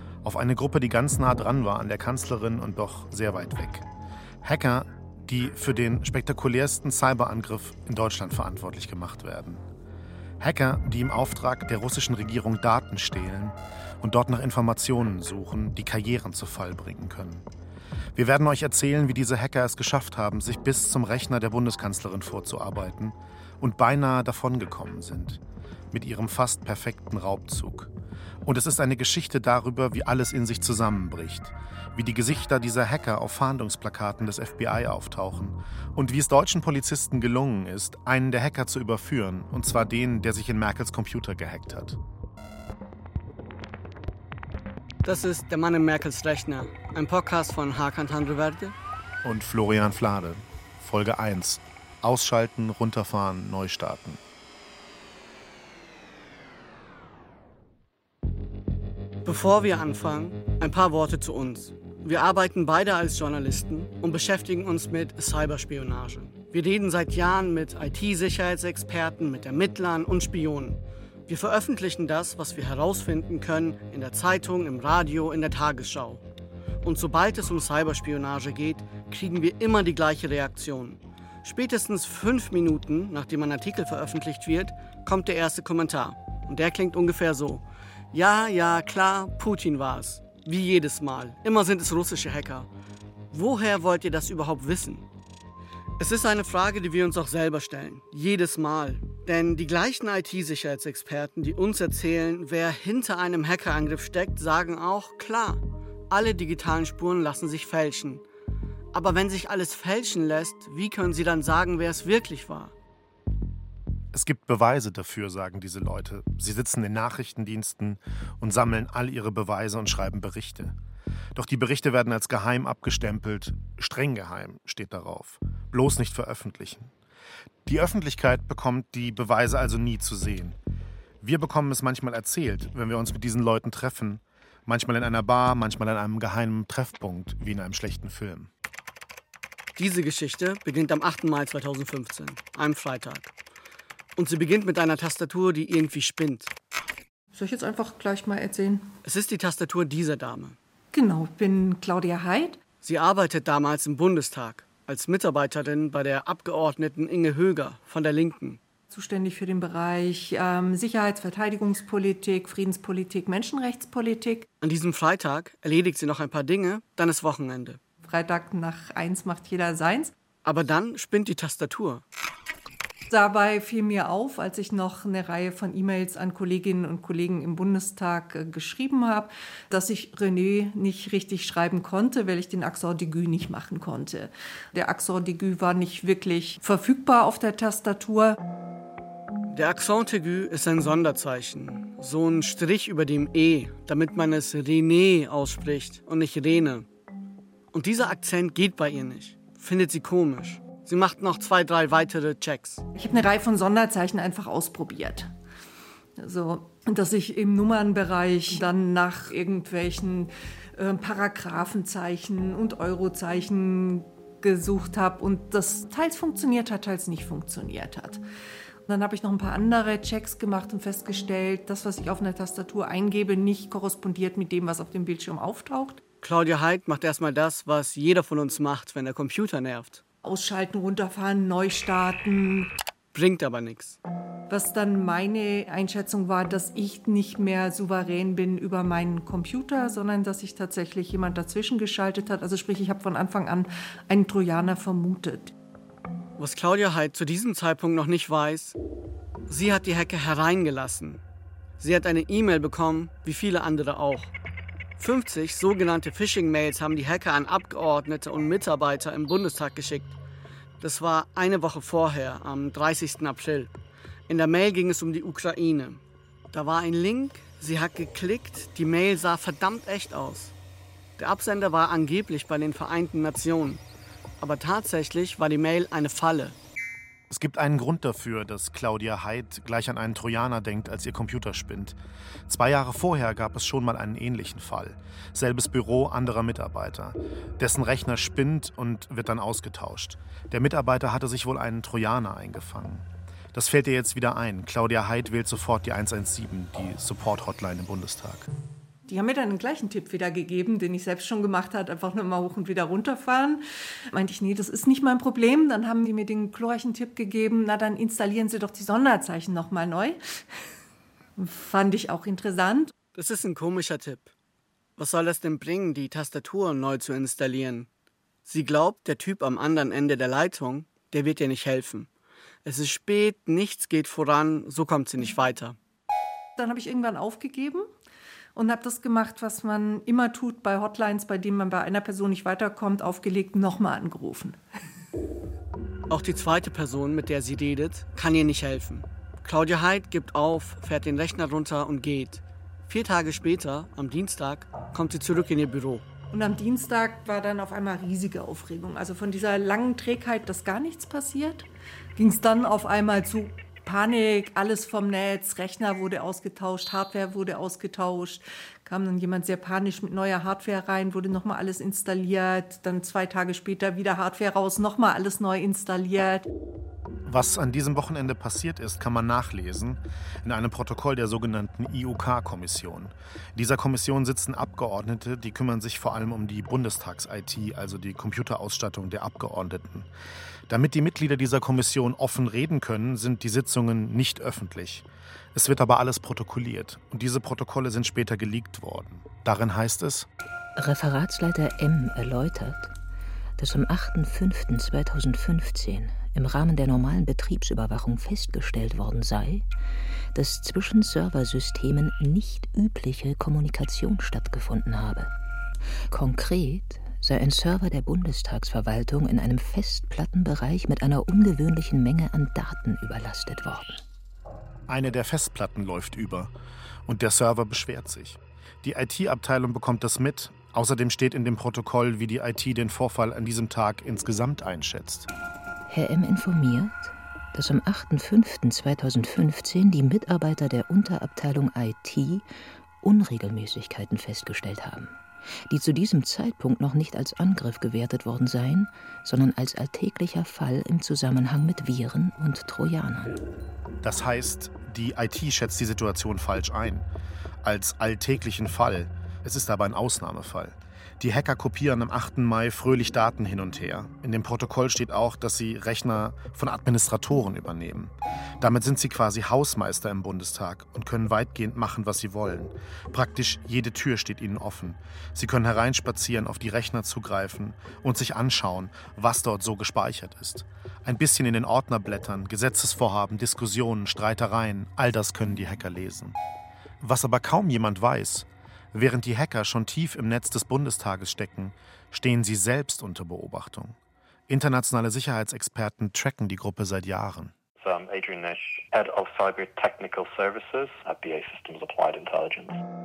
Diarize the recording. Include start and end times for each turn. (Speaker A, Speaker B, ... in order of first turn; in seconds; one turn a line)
Speaker A: 0.2-3.8
Speaker A: 4.4-9.6
Speaker A: 10.4-17.4
Speaker A: 18.1-25.4
Speaker A: 25.9-27.9
Speaker A: 28.4-42.0
Speaker B: 45.0-48.7
Speaker A: 49.2-54.2
Speaker B: 59.2-76.2
Speaker B: 76.8-92.7
Speaker B: 93.3-95.0
Speaker B: 96.0-108.2
Speaker B: 108.9-112.7
Speaker A: 114.1-120.7
Speaker A: 121.3-126.9
Speaker A: 127.7-130.6
Speaker A: 131.2-138.5
Speaker B: 139.8-143.3
Speaker B: 144.2-146.5
Speaker C: 147.3-148.9
Speaker B: 149.0-150.6
Speaker C: 150.9-152.6
Speaker B: 152.8-158.6
Speaker C: 158.9-164.5
Speaker B: 164.6-167.8
Speaker C: 168.0-170.1
Speaker B: 170.4-172.0
Speaker C: 173.1-188.4
Speaker B: 189.5-196.9
Speaker B: 197.7-202.8
Speaker C: 202.9-205.3
Speaker C: 206.2-218.2
Speaker C: 218.9-226.0
Speaker B: 226.2-230.0
Speaker C: 230.2-232.7
Speaker B: 233.1-234.0
Speaker C: 234.5-245.5
Speaker B: 246.4-248.8
Speaker B: 249.5-251.2
Speaker B: 251.8-254.3
Speaker B: 255.0-260.1
Speaker B: 260.8-263.7
Speaker B: 264.3-266.0
Speaker B: 266.5-270.5
Speaker B: 271.2-273.8
Speaker B: 274.4-276.6
Speaker A: 277.3-282.0
Speaker A: 282.5-298.5
Speaker C: 299.1-310.2
Speaker C: 311.4-312.9
Speaker B: 313.1-314.3
Speaker B: 315.0-317.9
Speaker B: 318.4-322.1
Speaker B: 322.6-325.8
Speaker C: 326.6-327.9
Speaker C: 328.6-334.6
Speaker B: 336.1-346.0
Speaker C: 346.3-366.5
Speaker A: 367.3-380.1
Speaker A: 380.7-390.3
Speaker D: 390.8-392.9
Speaker D: 393.6-399.6
Speaker D: 400.3-405.3
Speaker D: 406.1-414.0
Speaker A: 414.9-416.5
Speaker A: 417.1-425.3
Speaker D: 425.9-432.4
Speaker D: 433.0-435.1
Speaker D: 435.7-443.4
Speaker A: 444.0-447.1
Speaker A: 447.6-476.4
Speaker A: 477.0-483.9
Speaker A: 484.5-487.5
Speaker E: 487.8-492.8